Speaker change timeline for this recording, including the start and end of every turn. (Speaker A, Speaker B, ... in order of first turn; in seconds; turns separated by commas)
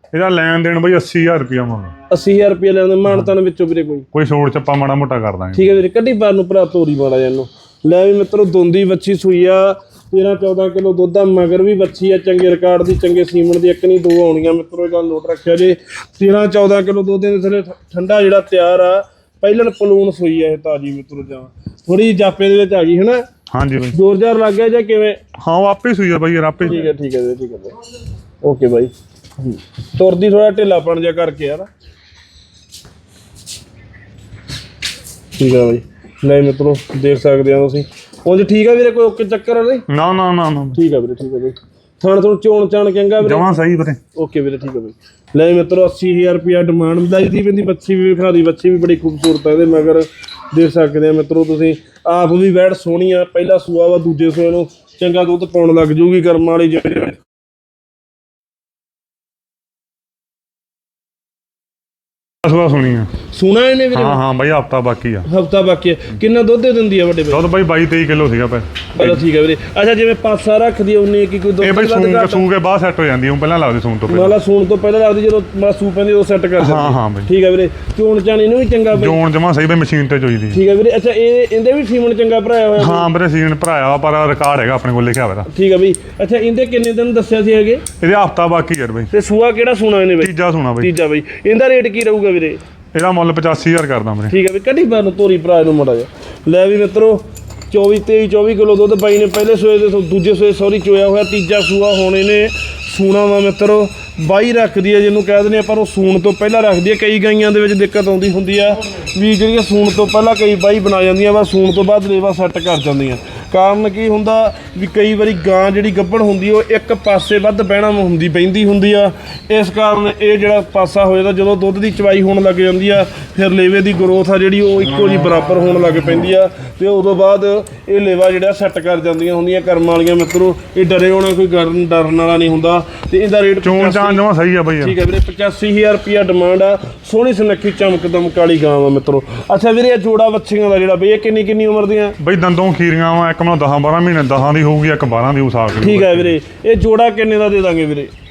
Speaker A: 0.1-1.9, Speaker B: 2.1-4.1, Speaker A: 3.1-3.3, Speaker A: 4.1-5.7, Speaker B: 5.5-23.2, Speaker A: 23.5-23.9, Speaker B: 23.9-25.2, Speaker A: 25.4-26.9, Speaker B: 26.6-27.8, Speaker B: 28.4-31.7, Speaker B: 35.4-39.9, Speaker A: 39.9-40.8, Speaker B: 40.7-43.5, Speaker A: 43.2-44.0, Speaker B: 44.1-57.2, Speaker A: 62.4-63.1, Speaker B: 63.3-64.2, Speaker A: 63.9-65.3, Speaker B: 65.2-67.4, Speaker A: 67.3-69.2, Speaker B: 69.0-72.4, Speaker A: 71.6-74.3, Speaker B: 74.1-79.2, Speaker A: 76.6-77.3, Speaker A: 78.9-80.6, Speaker B: 80.5-83.1, Speaker A: 82.8-85.5, Speaker B: 85.5-87.8, Speaker A: 88.0-89.1, Speaker B: 89.1-92.6, Speaker A: 90.2-90.9, Speaker A: 92.9-94.3, Speaker B: 94.3-134.2, Speaker A: 133.6-135.0, Speaker B: 134.8-142.2, Speaker A: 142.2-146.4, Speaker B: 145.8-148.1